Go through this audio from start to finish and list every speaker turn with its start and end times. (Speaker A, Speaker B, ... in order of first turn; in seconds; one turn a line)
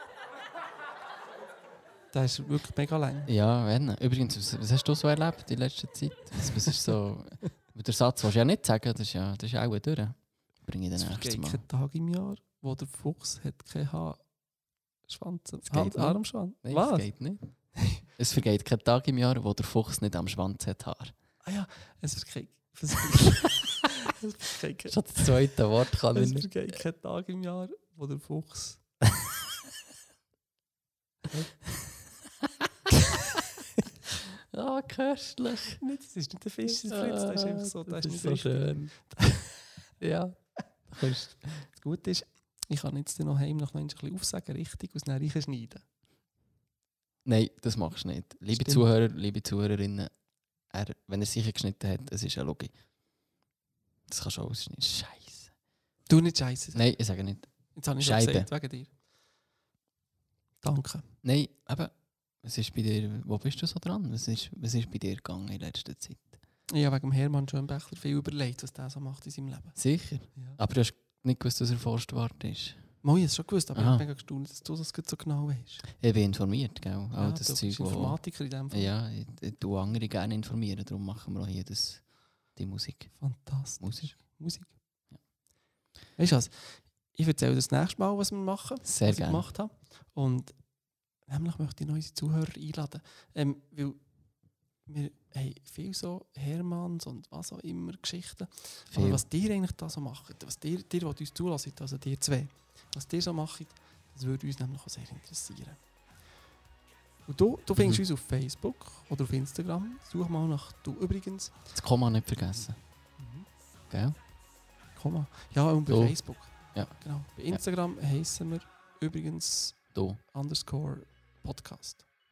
Speaker A: 2.1-3.3
Speaker B: 3.3-11.6
Speaker A: 11.0-14.3
Speaker A: 15.1-17.1
Speaker B: 15.7-21.1
Speaker A: 17.8-18.0
Speaker A: 21.4-25.3
Speaker B: 24.9-26.8
Speaker A: 26.1-28.8
Speaker B: 34.5-35.8
Speaker A: 35.8-39.6
Speaker B: 36.7-39.2
Speaker B: 40.0-41.7
Speaker A: 41.7-45.8
Speaker B: 47.2-50.1
Speaker A: 48.5-48.9
Speaker B: 50.7-52.7
Speaker B: 54.1-55.5
Speaker A: 56.1-56.9
Speaker B: 56.7-58.5
Speaker A: 57.7-58.9
Speaker A: 60.6-61.1
Speaker B: 61.2-66.4
Speaker A: 66.7-69.8
Speaker B: 69.8-72.9
Speaker A: 73.0-75.8
Speaker B: 73.7-74.0
Speaker B: 76.0-84.2
Speaker A: 77.2-78.9
Speaker A: 83.2-84.7
Speaker A: 86.2-90.6
Speaker B: 88.8-89.5
Speaker A: 91.3-94.0
Speaker A: 94.9-105.8
Speaker B: 98.9-99.2
Speaker A: 107.3-111.5
Speaker B: 111.7-112.8
Speaker A: 113.2-113.5
Speaker B: 113.9-114.1
Speaker A: 114.9-122.1
Speaker B: 115.9-117.6
Speaker B: 119.9-120.2